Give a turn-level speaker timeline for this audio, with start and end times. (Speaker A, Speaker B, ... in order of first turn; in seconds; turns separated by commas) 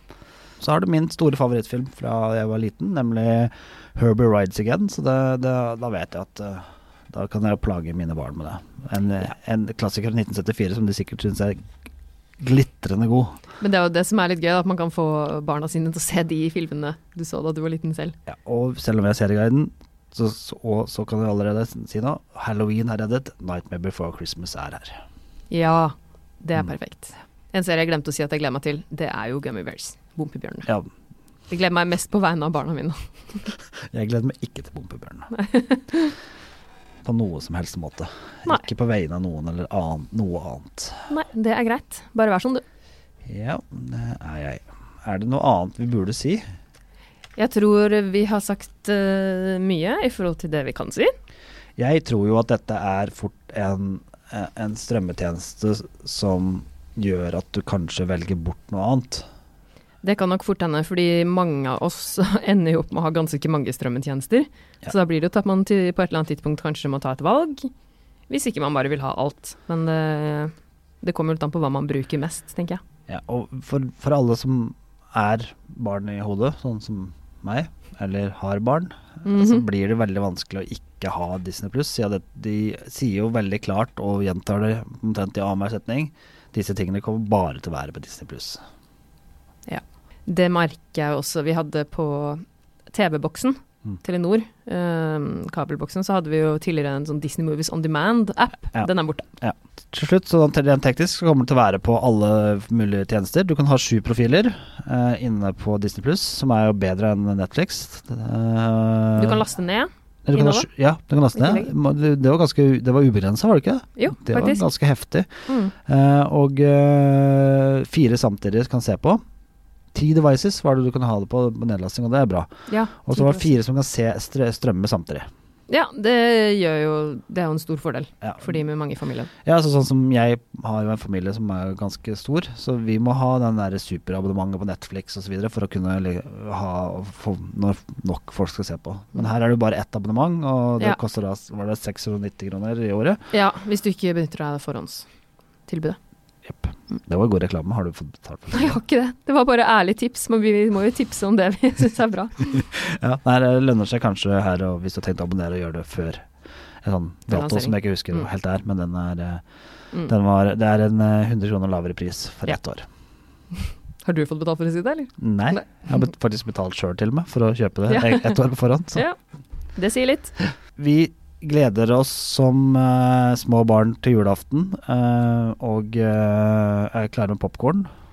Speaker A: 0.6-11.7, Speaker A: 12.4-13.4, Speaker B: 13.6-18.2, Speaker A: 18.3-25.0, Speaker B: 25.5-30.7, Speaker B: 31.5-33.5, Speaker A: 33.9-35.4, Speaker B: 35.3-36.1, Speaker A: 37.0-41.1, Speaker B: 41.1-42.6, Speaker A: 43.2-46.4, Speaker B: 47.4-51.1, Speaker A: 51.8-59.2, Speaker B: 60.0-67.7, Speaker B: 68.3-72.8, Speaker A: 73.1-88.6, Speaker B: 79.2-79.7, Speaker B: 89.7-99.3, Speaker A: 99.4-109.5, Speaker B: 109.2-110.7, Speaker A: 110.3-115.3, Speaker B: 111.3-111.7, Speaker B: 114.0-114.7, Speaker B: 115.5-115.7, Speaker A: 115.8-119.2, Speaker A: 119.9-122.5, Speaker B: 122.7-123.5, Speaker A: 123.0-125.3, Speaker B: 125.7-129.3, Speaker A: 128.2-128.5, Speaker A: 129.4-143.2, Speaker B: 143.3-145.1, Speaker B: 145.7-146.0, Speaker A: 146.4-148.8, Speaker B: 148.5-152.5, Speaker A: 152.6-156.3, Speaker A: 156.8-159.4, Speaker B: 157.3-158.3, Speaker A: 160.1-162.9, Speaker B: 163.5-165.7, Speaker A: 165.2-169.1, Speaker B: 167.9-168.4, Speaker B: 169.8-170.3, Speaker A: 170.8-177.9